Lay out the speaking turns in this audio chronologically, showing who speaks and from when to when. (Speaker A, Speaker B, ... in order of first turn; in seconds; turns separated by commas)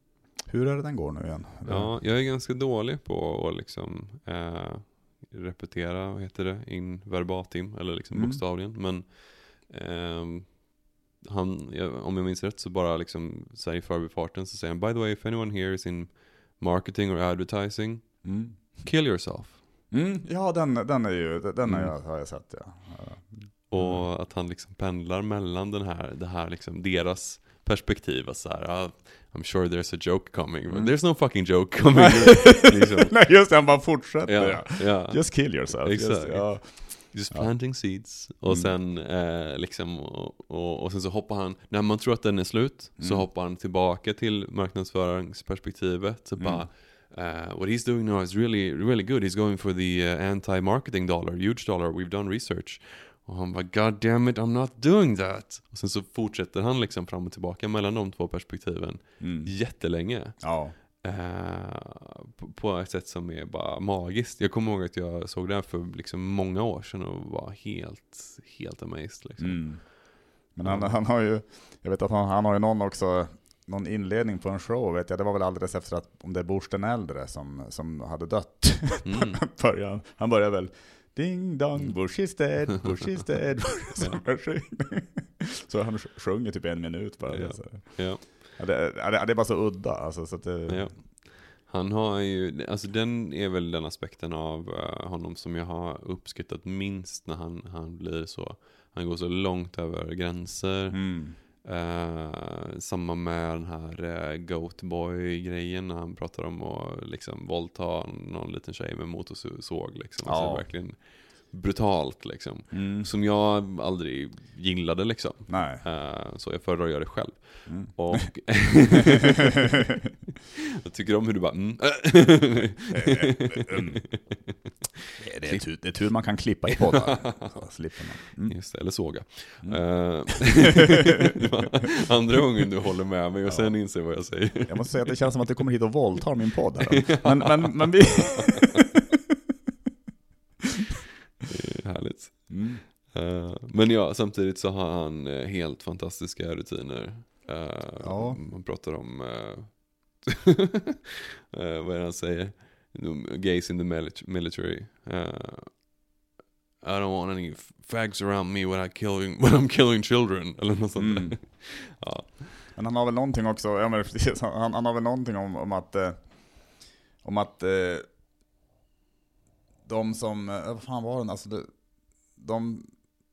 Speaker A: 0.5-2.0, Speaker B: 1.7-19.6, Speaker A: 8.1-8.4, Speaker A: 18.2-18.6, Speaker A: 19.9-24.1, Speaker B: 21.6-21.9, Speaker B: 23.7-33.3, Speaker A: 30.7-31.6, Speaker A: 32.5-38.8, Speaker B: 34.3-70.0, Speaker A: 43.0-43.3, Speaker A: 46.4-46.7, Speaker A: 59.2-60.8, Speaker A: 69.4-90.9, Speaker B: 70.6-71.0, Speaker B: 79.0-79.4, Speaker B: 84.0-84.3, Speaker B: 87.3-88.2, Speaker B: 90.7-119.8, Speaker A: 100.9-101.4, Speaker A: 110.3-110.7, Speaker A: 112.7-113.1, Speaker A: 115.5-115.8, Speaker A: 117.7-118.8, Speaker B: 120.8-124.5, Speaker A: 122.9-124.4, Speaker A: 125.2-130.5, Speaker B: 126.8-127.9, Speaker B: 128.4-135.2, Speaker A: 133.4-138.8, Speaker B: 137.1-138.1, Speaker B: 141.5-150.4, Speaker A: 142.5-142.8, Speaker A: 148.0-148.4, Speaker B: 151.5-156.0, Speaker B: 156.8-162.6, Speaker A: 161.0-161.4, Speaker A: 162.7-168.1, Speaker A: 169.8-173.1